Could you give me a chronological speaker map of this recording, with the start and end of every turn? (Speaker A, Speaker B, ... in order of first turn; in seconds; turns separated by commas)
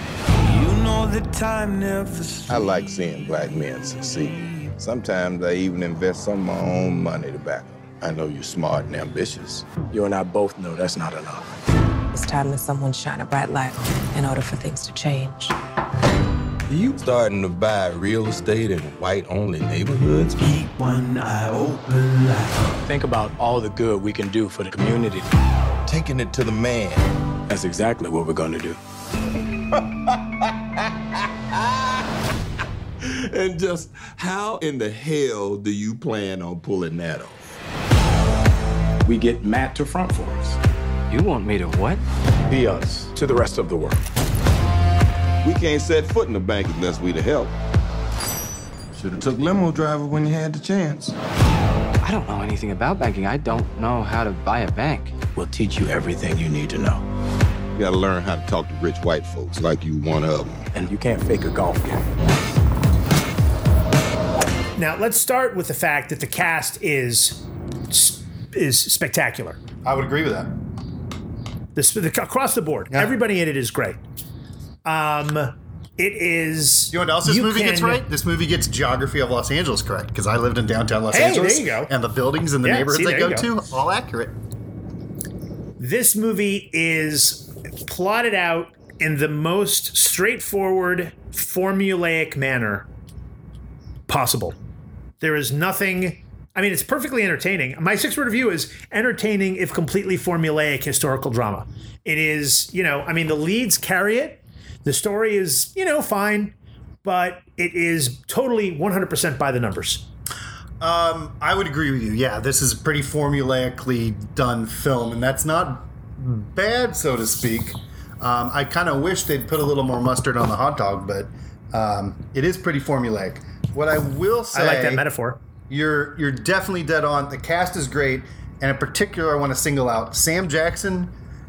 Speaker A: 0.5-2.7, Speaker B: 2.5-9.7, Speaker A: 4.2-4.7, Speaker C: 9.8-11.5, Speaker D: 12.1-15.6, Speaker B: 16.7-20.4, Speaker A: 20.4-22.7, Speaker C: 22.9-25.3, Speaker B: 25.9-27.1, Speaker C: 27.5-28.8, Speaker B: 33.0-37.4, Speaker C: 39.0-40.6, Speaker E: 41.1-42.0, Speaker C: 42.5-44.0, Speaker B: 45.4-47.5, Speaker B: 49.0-51.1, Speaker E: 52.0-55.2, Speaker C: 55.3-57.0, Speaker B: 57.8-60.7, Speaker C: 60.7-62.0, Speaker F: 64.8-69.6, Speaker G: 69.8-70.5, Speaker F: 71.8-74.0, Speaker F: 74.8-78.0, Speaker G: 76.9-84.4, Speaker F: 81.1-81.9, Speaker F: 82.6-83.5, Speaker F: 85.8-92.8, Speaker F: 94.1-94.6, Speaker F: 95.2-110.0, Speaker G: 110.8-125.1, Speaker F: 124.5-125.4, Speaker G: 125.7-131.2